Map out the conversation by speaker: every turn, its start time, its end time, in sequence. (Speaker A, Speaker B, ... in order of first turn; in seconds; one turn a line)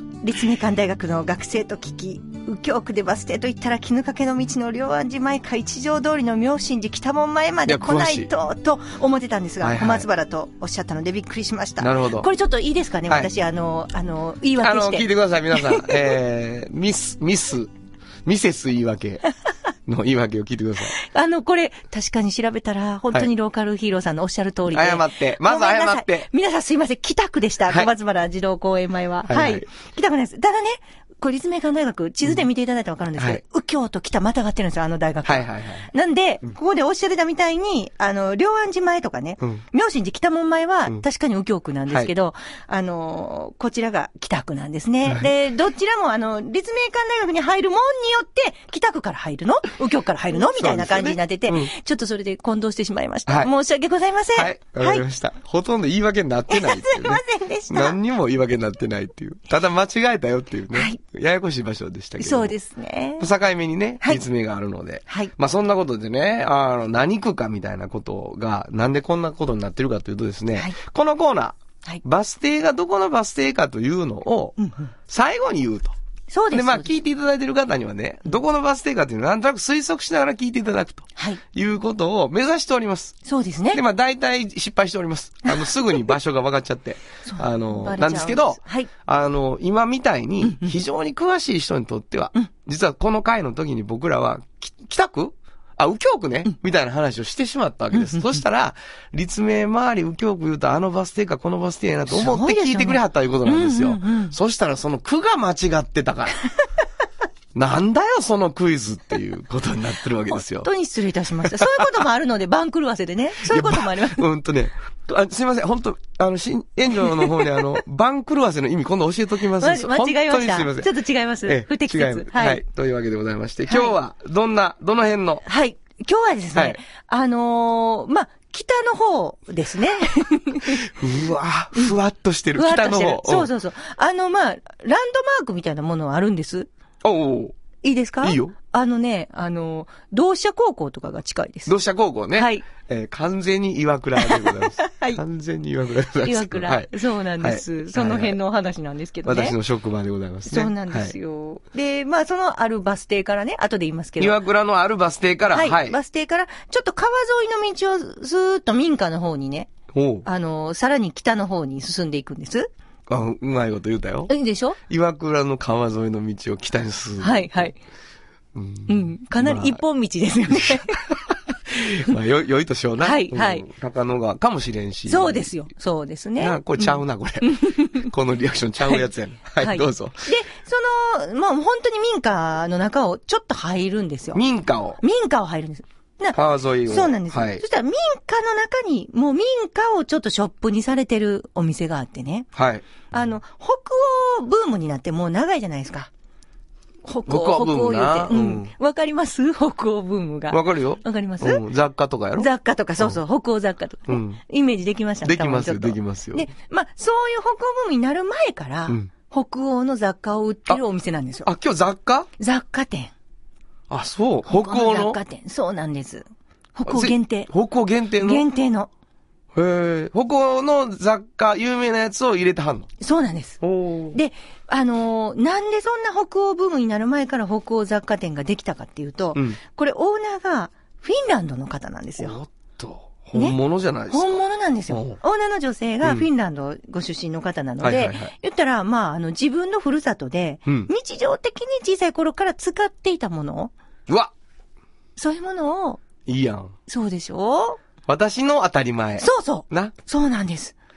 Speaker A: 0.2-15.9
Speaker B: 7.7-8.3
Speaker B: 9.6-10.1
Speaker B: 11.8-12.3
Speaker B: 14.6-17.7
Speaker B: 18.2-19.3
Speaker B: 19.9-20.9
Speaker A: 20.9-55.0
Speaker B: 24.7-26.3
Speaker B: 29.3-29.6
Speaker B: 35.2-35.9
Speaker B: 45.0-45.3
Speaker B: 50.4-51.7
Speaker B: 54.3-62.5
Speaker A: 56.5-58.0
Speaker A: 60.7-61.0
Speaker A: 62.2-63.3
Speaker B: 63.2-75.9
Speaker A: 74.6-74.9
Speaker A: 76.3-76.9
Speaker B: 76.5-83.2
Speaker A: 83.2-83.8
Speaker B: 83.7-106.4
Speaker A: 87.2-88.9
Speaker A: 90.4-90.7
Speaker A: 97.9-98.4
Speaker A: 102.1-104.3
Speaker B: 107.5-110.7
Speaker A: 110.3-114.2
Speaker B: 111.5-111.9
Speaker B: 113.5-120.9
Speaker A: 117.0-117.6
Speaker A: 119.6-122.6
Speaker B: 121.5-125.4
Speaker A: 123.7-123.9
Speaker A: 125.5-130.8
Speaker B: 130.8-133.5
Speaker A: 132.6-136.7
Speaker B: 137.0-137.6
Speaker A: 137.8-141.7
Speaker B: 138.2-138.5
Speaker B: 141.7-148.4
Speaker A: 142.3-142.7
Speaker A: 144.2-145.2
Speaker A: 146.2-149.6
Speaker B: 149.2-151.2
Speaker A: 150.5-154.3
Speaker B: 154.2-156.0
Speaker A: 155.5-159.7
Speaker B: 159.9-160.3
Speaker A: 160.2-162.7
Speaker B: 163.1-164.3
Speaker A: 164.3-164.8
Speaker B: 164.9-167.7
Speaker A: 167.2-167.8
Speaker B: 168.5-169.8
Speaker A: 168.9-171.0
Speaker B: 171.7-175.5
Speaker A: 173.0-173.7
Speaker A: 175.1-178.0
Speaker B: 176.4-180.3
Speaker A: 179.6-184.4
Speaker B: 184.3-185.0
Speaker A: 185.0-186.4
Speaker B: 186.3-187.6
Speaker A: 186.9-192.5
Speaker B: 192.5-192.8
Speaker A: 193.1-196.1
Speaker A: 197.0-201.6
Speaker B: 197.3-198.7
Speaker B: 200.5-202.5
Speaker A: 202.4-211.5
Speaker B: 204.1-204.4
Speaker B: 205.2-206.5
Speaker B: 211.4-212.3
Speaker A: 212.4-213.1
Speaker B: 213.9-215.2
Speaker A: 214.5-217.5
Speaker B: 216.9-218.4
Speaker A: 218.2-218.9
Speaker B: 219.5-222.9
Speaker A: 223.0-223.6
Speaker B: 223.6-224.2
Speaker A: 224.1-232.4
Speaker B: 232.2-234.4
Speaker A: 234.1-243.7
Speaker B: 234.9-235.2
Speaker B: 236.0-236.3
Speaker B: 237.8-238.3
Speaker A: 245.2-246.0
Speaker B: 246.2-246.7
Speaker A: 246.9-247.8
Speaker B: 248.1-249.9
Speaker A: 249.2-250.7